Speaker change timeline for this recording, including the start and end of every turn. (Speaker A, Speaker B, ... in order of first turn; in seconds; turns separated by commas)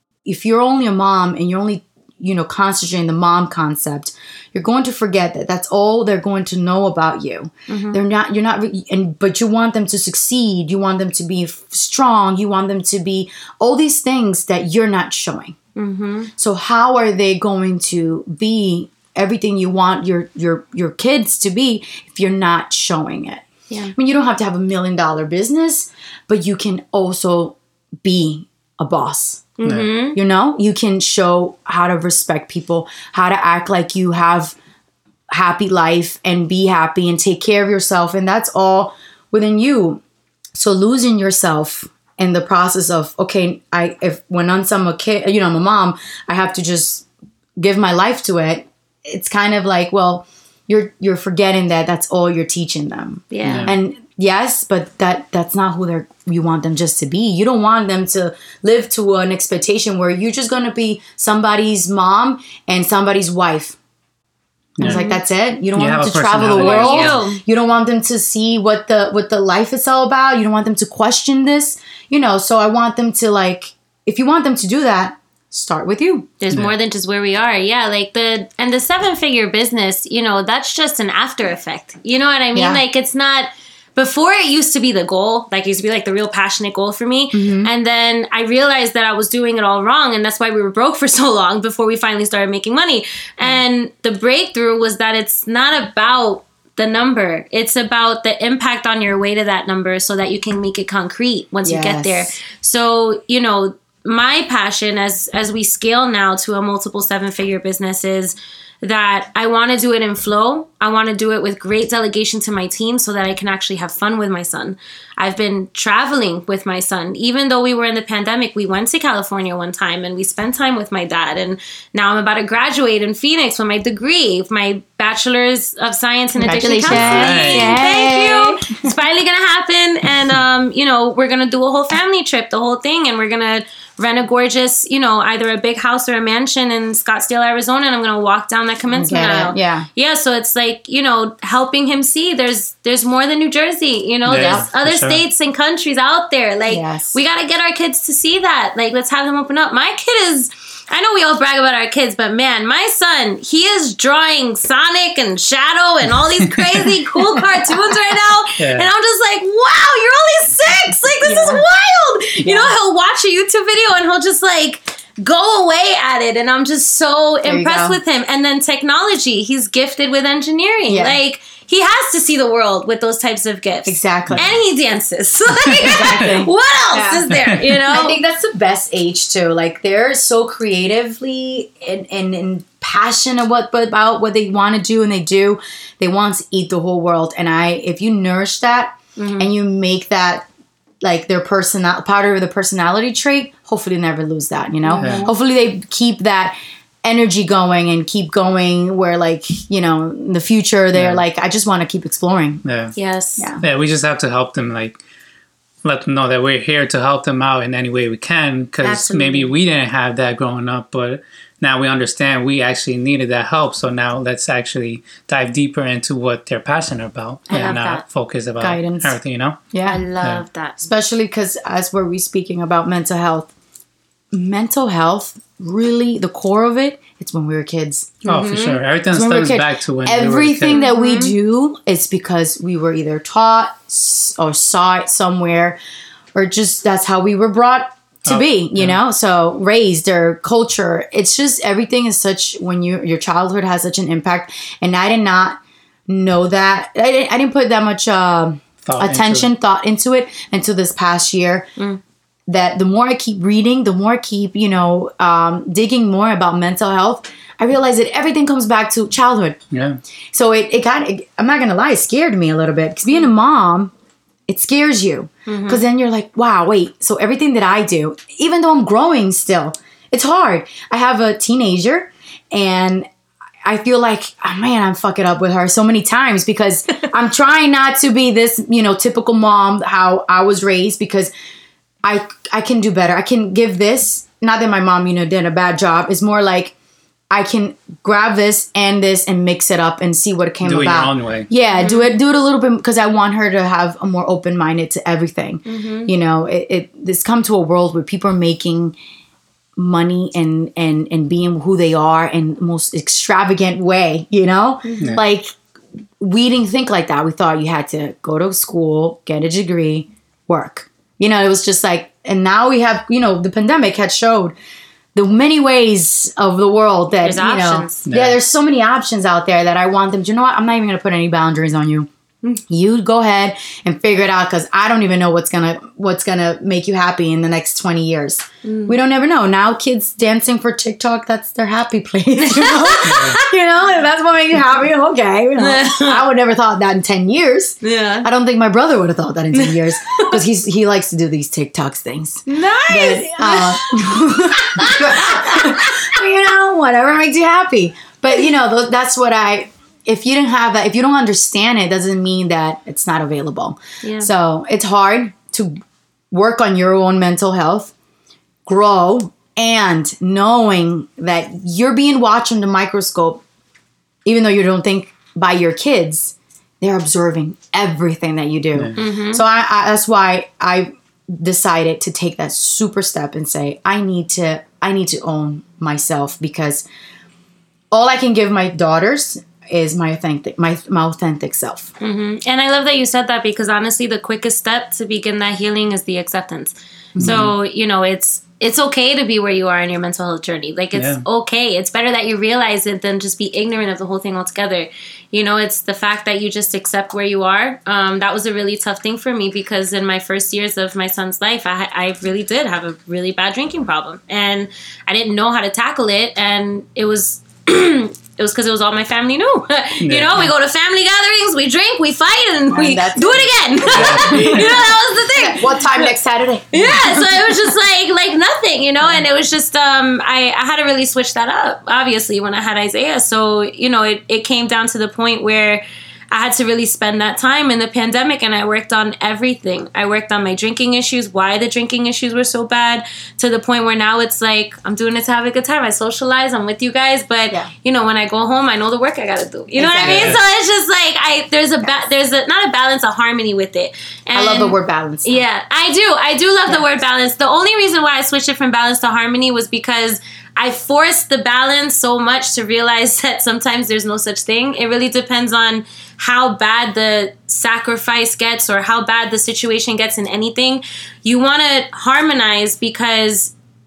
Speaker A: 0.2-15.6, Speaker B: 7.7-8.0, Speaker B: 15.8-16.3, Speaker A: 16.4-29.5, Speaker B: 29.6-30.2, Speaker C: 29.6-29.9, Speaker A: 30.1-34.5, Speaker A: 35.3-40.0, Speaker A: 40.5-47.0, Speaker A: 47.6-63.8, Speaker B: 53.3-53.7, Speaker C: 53.4-53.7, Speaker C: 64.8-65.0, Speaker A: 64.8-76.3, Speaker B: 64.8-65.2, Speaker C: 65.7-67.2, Speaker B: 66.6-67.4, Speaker B: 76.4-178.2, Speaker A: 82.5-82.8, Speaker A: 87.3-87.7, Speaker A: 101.6-102.3, Speaker A: 126.4-128.9, Speaker C: 126.8-127.8, Speaker A: 138.9-139.9, Speaker C: 144.2-145.2, Speaker A: 144.3-144.6, Speaker A: 146.7-147.2, Speaker C: 158.6-158.9, Speaker A: 161.2-161.6, Speaker A: 162.4-162.7, Speaker A: 167.4-168.0, Speaker A: 170.9-171.2, Speaker A: 173.8-174.5, Speaker A: 175.8-177.3, Speaker C: 177.3-177.6, Speaker A: 177.9-190.5, Speaker B: 189.2-189.5, Speaker A: 191.0-202.6, Speaker B: 194.8-195.3, Speaker C: 195.0-195.2, Speaker C: 200.9-201.2, Speaker C: 202.6-202.9, Speaker B: 202.9-203.6, Speaker C: 203.6-205.0, Speaker C: 205.8-219.6, Speaker B: 208.8-209.5, Speaker B: 217.5-218.0, Speaker A: 218.6-219.1, Speaker A: 219.7-220.0, Speaker B: 219.8-220.8, Speaker A: 220.8-223.5, Speaker A: 224.3-228.2, Speaker B: 228.2-228.8, Speaker C: 228.3-230.8, Speaker A: 229.1-235.8, Speaker B: 230.7-231.3, Speaker A: 236.3-251.7, Speaker C: 238.3-239.0, Speaker C: 248.8-249.5, Speaker A: 252.5-259.6, Speaker C: 259.7-260.0, Speaker A: 260.3-263.9, Speaker A: 264.5-273.1, Speaker B: 265.5-265.8, Speaker A: 273.6-281.3, Speaker A: 282.0-286.7, Speaker A: 287.3-298.9, Speaker C: 290.6-291.5, Speaker B: 291.7-292.1, Speaker B: 295.6-296.1, Speaker A: 299.8-305.5, Speaker B: 304.8-305.2, Speaker A: 306.2-314.5, Speaker A: 315.1-322.1, Speaker B: 317.2-318.1, Speaker C: 318.1-318.4, Speaker A: 322.7-355.8, Speaker B: 328.6-328.9, Speaker B: 332.4-333.4, Speaker C: 333.0-333.4, Speaker B: 335.6-336.2, Speaker B: 337.8-338.3, Speaker B: 339.6-340.3, Speaker B: 342.5-344.0, Speaker B: 344.5-346.1, Speaker B: 354.0-354.3, Speaker A: 356.3-357.9, Speaker A: 358.6-363.4, Speaker A: 364.2-376.8, Speaker B: 368.9-369.4, Speaker A: 377.9-381.9, Speaker B: 382.0-416.1, Speaker A: 387.1-387.4, Speaker C: 387.2-387.5, Speaker C: 390.9-391.2, Speaker C: 410.0-410.5, Speaker A: 412.7-414.7, Speaker C: 413.9-414.8, Speaker A: 415.3-417.5, Speaker B: 416.7-463.5, Speaker A: 439.7-440.4, Speaker C: 440.0-440.4, Speaker A: 444.3-445.4